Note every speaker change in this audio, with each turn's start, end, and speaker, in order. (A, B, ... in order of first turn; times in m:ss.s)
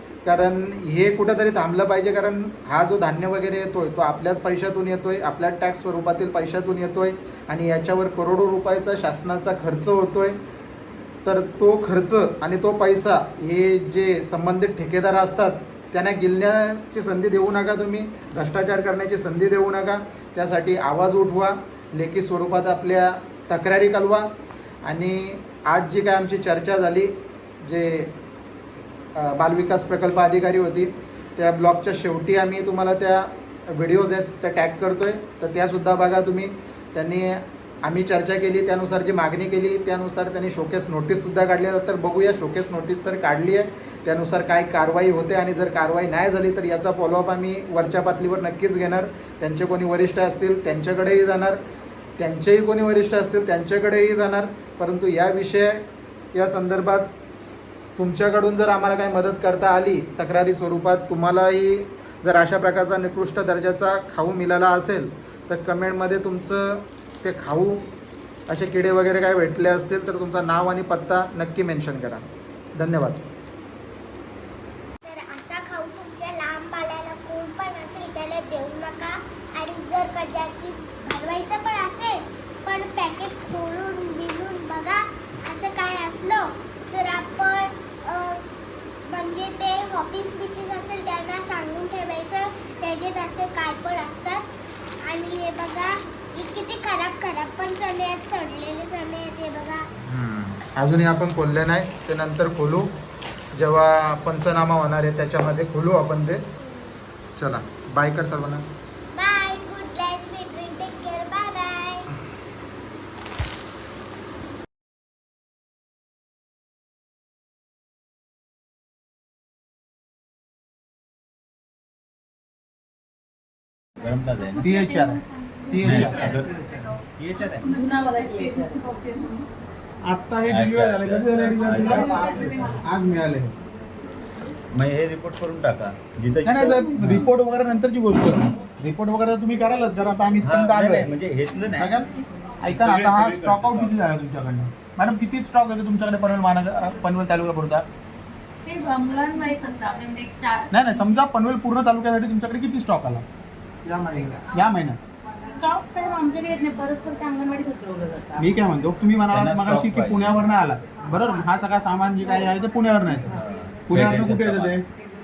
0:00.2-0:10.4 A
0:11.2-0:24.3 A
0:24.8-0:28.1 A
0:29.2-0:51.6 A
0:52.2-0:57.1 A
0:58.0-1:07.8 A
1:08.5-1:12.2 A
1:12.8-1:13.3 A
1:15.0-1:28.4 B
1:29.0-1:34.5 B
1:35.0-1:39.9 B
1:40.0-1:42.9 A
1:43.5-1:46.5 A
1:46.6-1:47.0 B
1:47.4-1:48.6 A
1:49.1-1:52.1 B
2:04.0-2:04.6 C
2:04.6-2:06.5 D
2:04.6-2:05.2 E
2:05.7-2:06.9 E
2:05.8-2:07.8 C
2:07.6-2:09.4 E
2:10.0-2:13.5 D
2:10.4-2:12.8 C
2:11.9-2:12.4 A
2:14.7-2:17.3 C
2:16.4-2:21.1 D
2:20.4-2:22.0 C
2:21.8-2:22.1 D
2:22.6-2:27.8 D
2:22.6-2:24.1 C
2:28.6-2:30.7 E
2:30.7-2:33.2 D
2:33.8-2:34.4 A
2:34.5-2:35.0 D
2:35.4-2:38.5 E
2:38.4-2:44.8 D
2:39.3-2:40.4 C
2:43.3-2:44.8 C